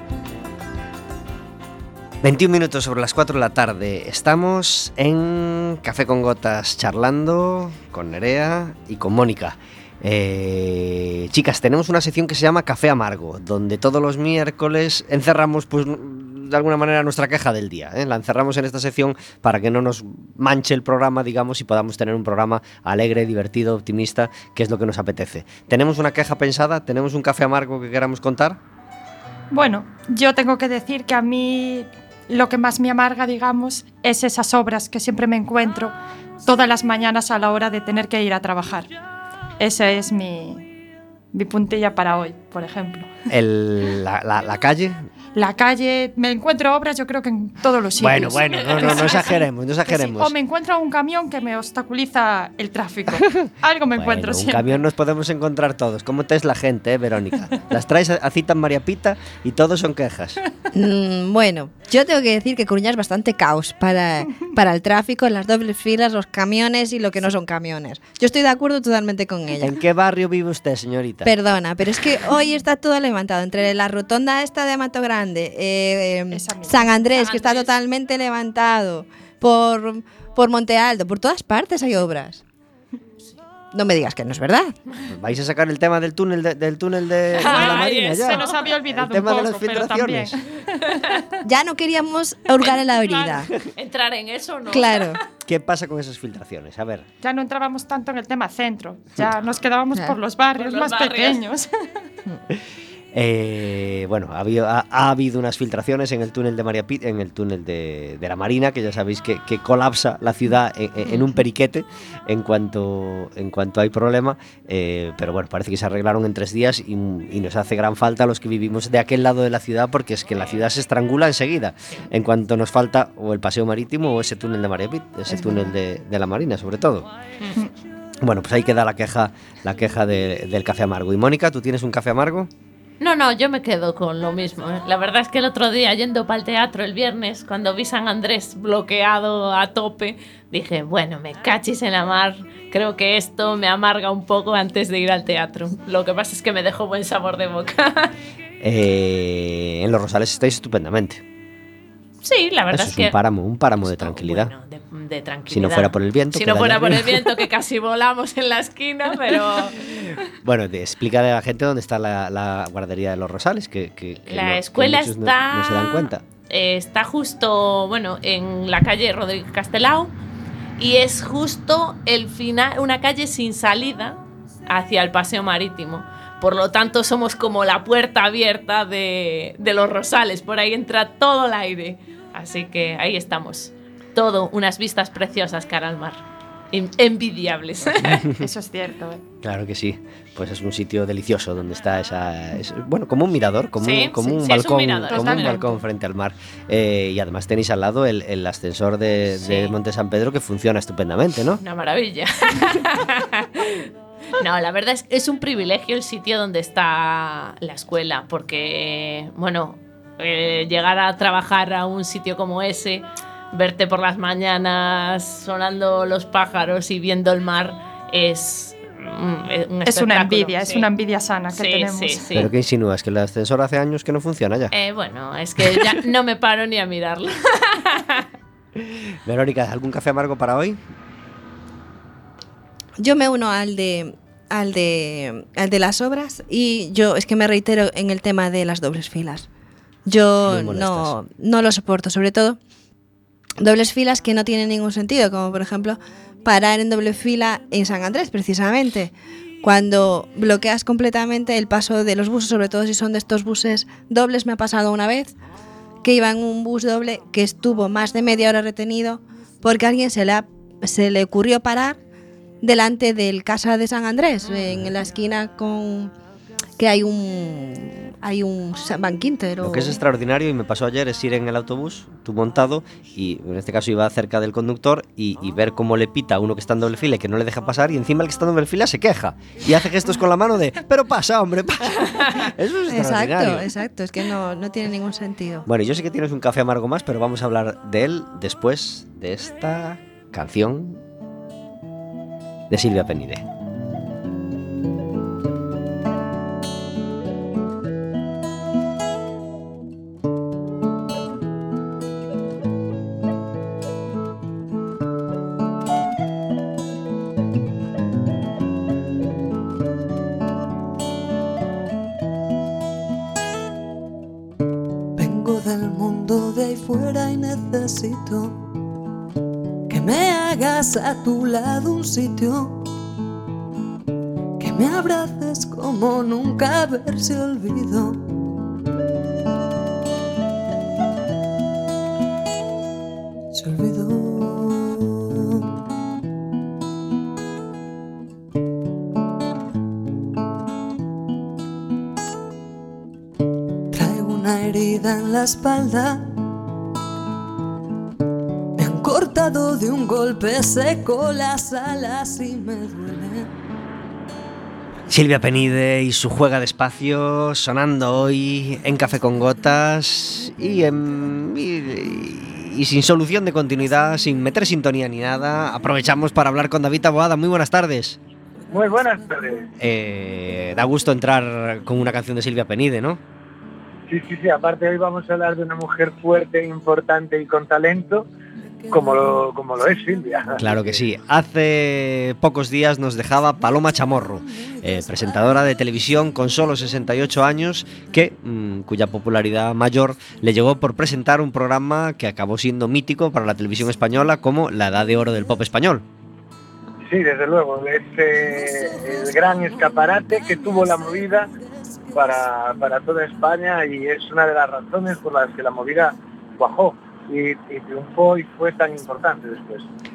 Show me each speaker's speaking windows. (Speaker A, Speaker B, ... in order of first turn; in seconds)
Speaker A: 2.2-28.6, 43.3-45.1, 48.0-50.3, 54.0-60.4, 69.6-71.3, 85.1-90.4, 95.5-97.1, 103.1-127.1, 128.2-132.5, 148.6-151.2, 152.7-154.5, 155.5-157.3, 160.4-166.2, 188.1-188.4, 189.4-201.6, 222.3-224.7, 228.8-230.8, 240.4-241.1, 269.6-283.7, 285.7-291.0, 292.7-293.4, 355.1-368.2, 369.8-373.2, 380.6-396.1
Speaker B: 29.5-38.9, 39.6-40.7, 41.3-43.1, 45.4-54.8, 76.3-76.9, 87.5-91.2, 92.7-93.4, 97.2-101.7, 188.3-189.2, 195.1-195.8, 219.9-222.3
Speaker C: 60.7-69.7, 71.2-82.4, 83.7-84.7, 91.4-93.5, 94.7-95.2, 233.0-239.5, 240.1-242.6, 243.6-255.3, 256.0-262.0, 262.6-266.1, 266.8-270.0, 282.9-285.7
Speaker D: 77.2-77.7, 87.4-88.7, 93.7-95.2, 100.6-101.4, 133.0-148.1, 152.2-153.2, 153.8-159.8, 164.3-170.1, 170.8-188.2, 193.8-195.6, 199.4-199.8, 201.6-220.9, 221.5-222.5, 224.7-228.3
Speaker E: 315.2-318.6, 319.9-322.8, 324.6-328.2, 333.5-335.7, 343.9-346.3, 348.8-353.5, 378.9-379.3, 398.6-402.4
Speaker F: 368.7-369.7, 374.1-378.3, 378.9-380.6, 397.1-401.5, 402.1-409.9